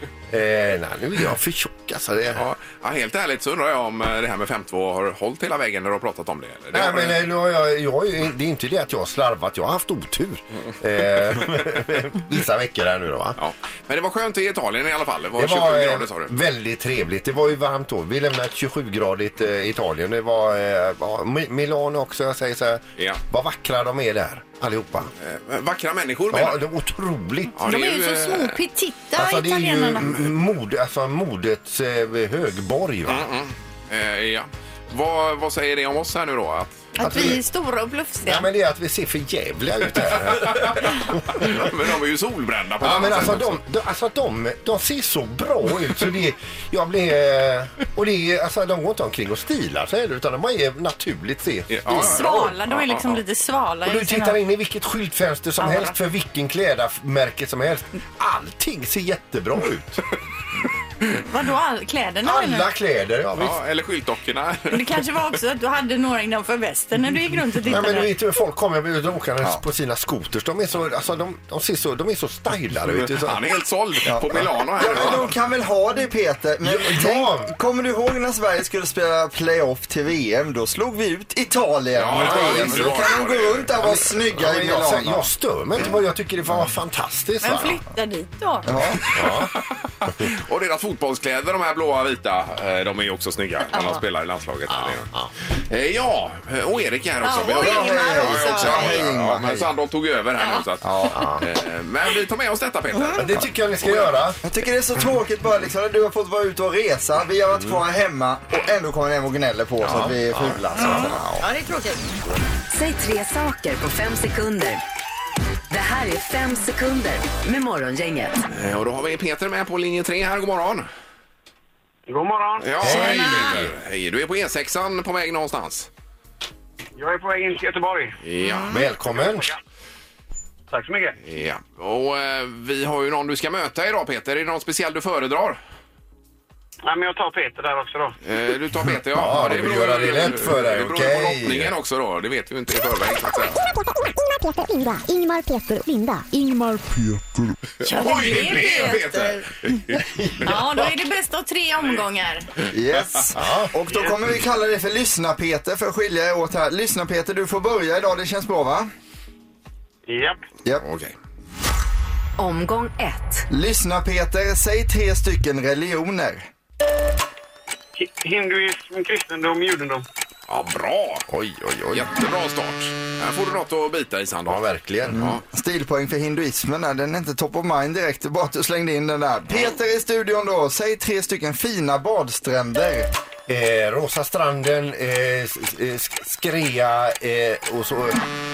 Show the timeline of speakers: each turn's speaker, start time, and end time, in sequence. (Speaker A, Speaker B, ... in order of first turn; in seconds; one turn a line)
Speaker A: 0.3-2.4
Speaker B: 2.3-7.2
Speaker A: 6.7-13.4
Speaker B: 13.4-16.3
Speaker A: 15.4-25.1
Speaker B: 25.2-26.6
Speaker A: 26.3-27.6
Speaker B: 27.6-28.6
Speaker C: 27.6-30.2
Speaker A: 29.2-33.3
Speaker B: 33.1-36.9
Speaker C: 37.0-38.5
Speaker A: 37.0-37.4
Speaker A: 38.2-41.7
Speaker B: 40.1-43.6
Speaker A: 42.8-52.5
Speaker B: 51.7-53.2
Speaker C: 51.9-54.4
Speaker A: 53.9-60.0
Speaker C: 55.6-56.0
Speaker C: 61.2-62.7
Speaker A: 62.2-63.6
Speaker B: 63.4-65.1
Speaker C: 64.7-68.1
Speaker A: 67.6-73.4
Speaker B: 73.0-75.3
Speaker D: 74.1-85.3
Speaker A: 74.8-75.3
Speaker A: 76.6-77.5
Speaker B: 82.0-84.0
Speaker A: 82.1-83.1
Speaker A: 83.8-87.8
Speaker C: 87.4-88.7
Speaker D: 88.7-89.2
Speaker A: 89.1-89.5
Speaker B: 89.2-104.2
Speaker C: 93.7-94.0
Speaker A: 94.7-95.3
Speaker C: 97.2-99.0
Speaker D: 97.5-99.7
Speaker A: 101.0-101.5
Speaker C: 102.9-103.2
Speaker A: 103.2-104.4
Speaker D: 104.4-111.3
Speaker A: 107.6-107.8
Speaker A: 109.8-111.3
Speaker B: 109.8-111.0
Speaker C: 110.8-112.0
Speaker E: 112.7-114.8
Speaker E: 115.7-118.3
Speaker B: 118.5-120.9
Speaker F: 122.1-123.0
Speaker B: 122.6-125.9
Speaker A: 122.8-123.7
Speaker C: 122.9-123.6
Speaker F: 127.0-128.2
Speaker B: 128.2-128.8
Speaker A: 128.7-129.5
Speaker F: 129.1-129.6
Speaker F: 130.7-131.2
Speaker B: 131.2-135.6
Speaker F: 136.8-138.2
Speaker B: 138.2-143.6
Speaker A: 139.1-141.8
Speaker G: 143.6-147.5
Speaker C: 147.8-149.8
Speaker B: 147.8-150.0
Speaker A: 150.0-150.6
Speaker C: 150.4-152.5
Speaker D: 152.7-158.9
Speaker A: 153.3-153.7
Speaker F: 160.1-160.4
Speaker B: 160.8-161.1
Speaker E: 162.4-163.5
Speaker D: 163.5-166.5
Speaker F: 168.0-170.1
Speaker B: 170.5-171.2
Speaker A: 171.3-172.1
Speaker B: 171.9-174.6
Speaker A: 174.5-175.3
Speaker D: 175.1-183.1
Speaker B: 175.1-175.4
Speaker A: 183.5-188.2